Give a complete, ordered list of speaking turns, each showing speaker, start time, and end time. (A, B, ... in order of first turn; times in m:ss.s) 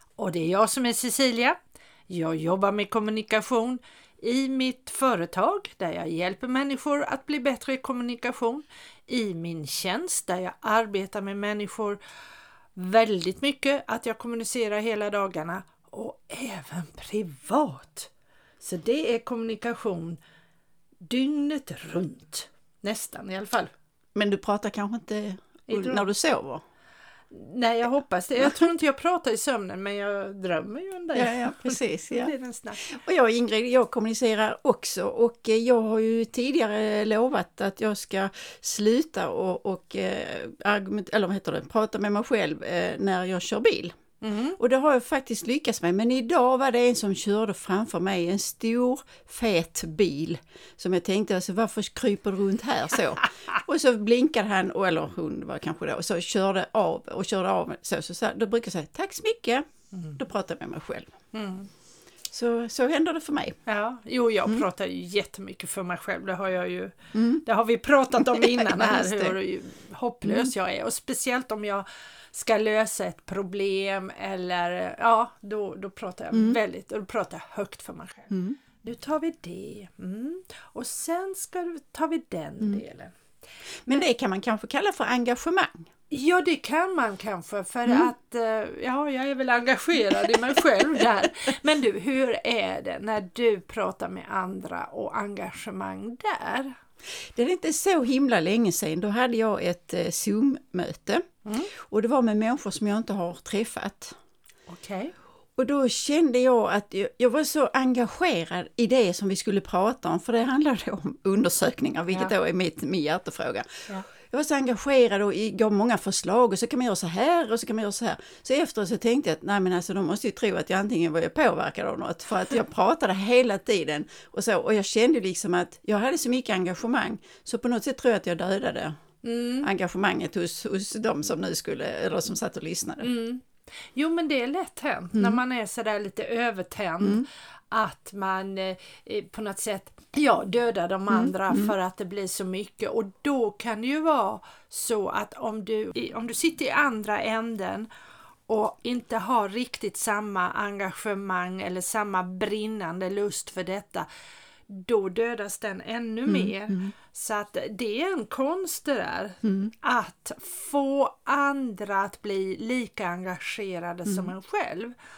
0:00.2-0:01.6 A
0:02.1-0:12.0 A
0:12.8-0:18.1 A
0:18.6-0:20.2 A
0:21.0-0:23.7 A
0:24.1-0:26.6 B
0:25.7-0:26.1 A
0:27.3-0:32.8 A
0:28.4-0:28.7 B
0:31.1-0:44.0 B
0:44.2-0:44.6 A
0:44.6-0:59.6 B
0:59.9-1:00.2 A
1:00.2-1:01.1 B
1:01.3-1:01.7 A
1:02.3-1:03.6 B
1:03.6-1:23.1 A
1:07.1-1:07.4 B
1:08.2-1:09.4 B
1:10.2-1:10.5 B
1:16.3-1:16.6 B
1:18.3-1:18.6 B
1:23.8-1:25.9 B
1:26.1-1:36.7 A
1:37.2-1:41.2 B
1:41.4-1:41.7 A
1:41.8-1:44.1 B
1:44.7-1:45.1 A
1:45.6-2:09.0 B
2:09.2-2:09.7 A
2:09.6-2:13.1 B
2:13.0-2:27.9 A
2:17.0-2:17.3 B
2:21.1-2:21.7 B
2:28.5-2:34.1 A
2:34.7-2:44.9 A
2:36.2-2:36.9 B
2:39.4-2:39.7 B
2:44.0-2:44.3 B